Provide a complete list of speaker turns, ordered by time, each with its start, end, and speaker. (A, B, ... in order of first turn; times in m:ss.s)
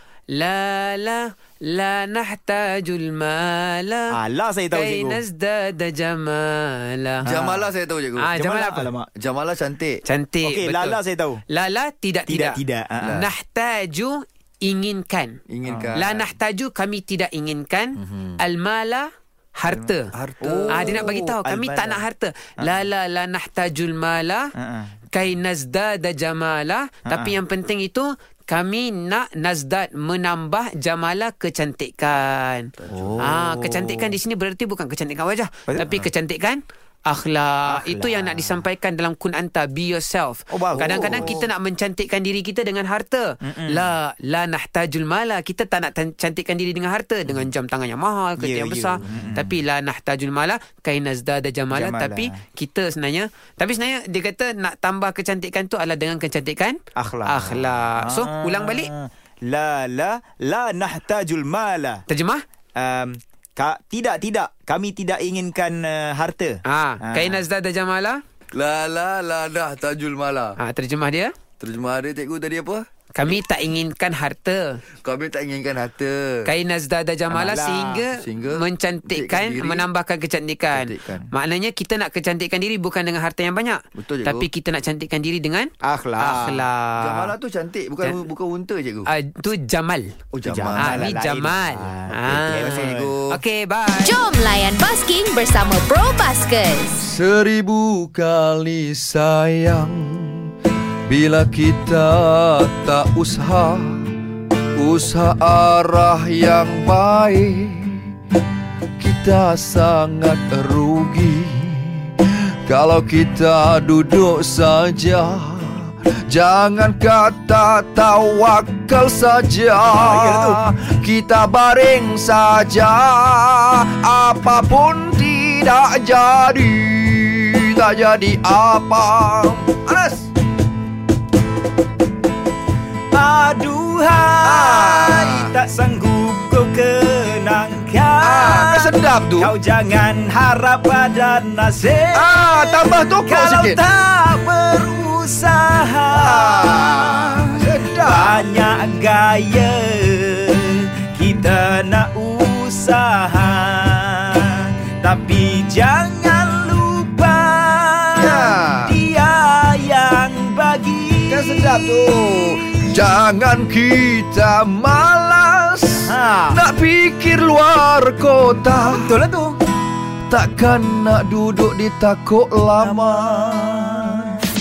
0:00.3-0:04.1 A
0:04.1-0:05.2 B
0:04.7-0:07.3 A
0:07.2-0:08.3 C
0:07.3-0:07.6 B
0:08.2-0:08.9 A
0:08.3-0:09.1 B
0:09.2-0:10.0 C
0:10.1-0:15.4 A
0:10.4-0:11.4 B
0:12.3-0:13.2 B
0:15.5-0:16.2 C
0:15.7-0:16.0 B
0:16.0-0:19.1 A
0:18.0-0:18.4 C
0:19.6-0:20.1 A
0:20.1-0:21.2 C
0:20.4-0:22.0 B
0:20.7-0:24.5 A
0:24.6-0:24.9 B
0:25.1-0:58.9 A
0:27.1-0:27.3 B
0:32.9-0:34.1 B
0:32.9-0:33.3 C
0:35.7-0:36.0 B
0:37.7-0:38.6 B
0:40.5-0:41.5 B
0:41.0-0:41.4 C
0:43.4-0:43.8 B
0:48.4-0:49.6 B
0:51.7-0:52.4 B
0:57.0-1:02.0 B
1:02.1-1:02.4 A
1:02.8-1:07.4 B
1:06.7-1:08.2 A
1:08.5-1:10.6 C
1:10.6-1:11.3 A
1:11.6-1:12.8 C
1:13.2-1:14.8 A
1:15.0-1:16.5 C
1:16.5-1:27.3 A
1:17.3-1:18.0 B
1:18.1-1:19.9 C
1:20.7-1:21.3 C
1:24.0-1:24.5 C
1:25.8-1:26.7 B
1:27.0-1:29.1 C
1:29.1-1:30.1 A
1:30.3-1:31.2 C
1:30.5-1:33.1 B
1:30.8-1:34.2 A
1:32.1-1:33.4 C
1:34.0-1:37.0 D
1:37.0-1:40.4 C
1:41.1-1:44.1 C
1:44.8-1:48.1 C
1:49.0-2:10.3 C
1:59.9-2:00.6 B
2:13.1-2:42.2 B
2:14.4-2:15.5 C
2:18.2-2:19.6 C
2:22.1-2:23.8 C
2:26.1-2:28.4 C
2:38.2-2:39.0 C
2:41.3-2:49.1 C
2:46.1-2:46.6 B
2:48.8-2:49.6 B
2:50.3-2:54.4 C
2:52.9-2:54.1 B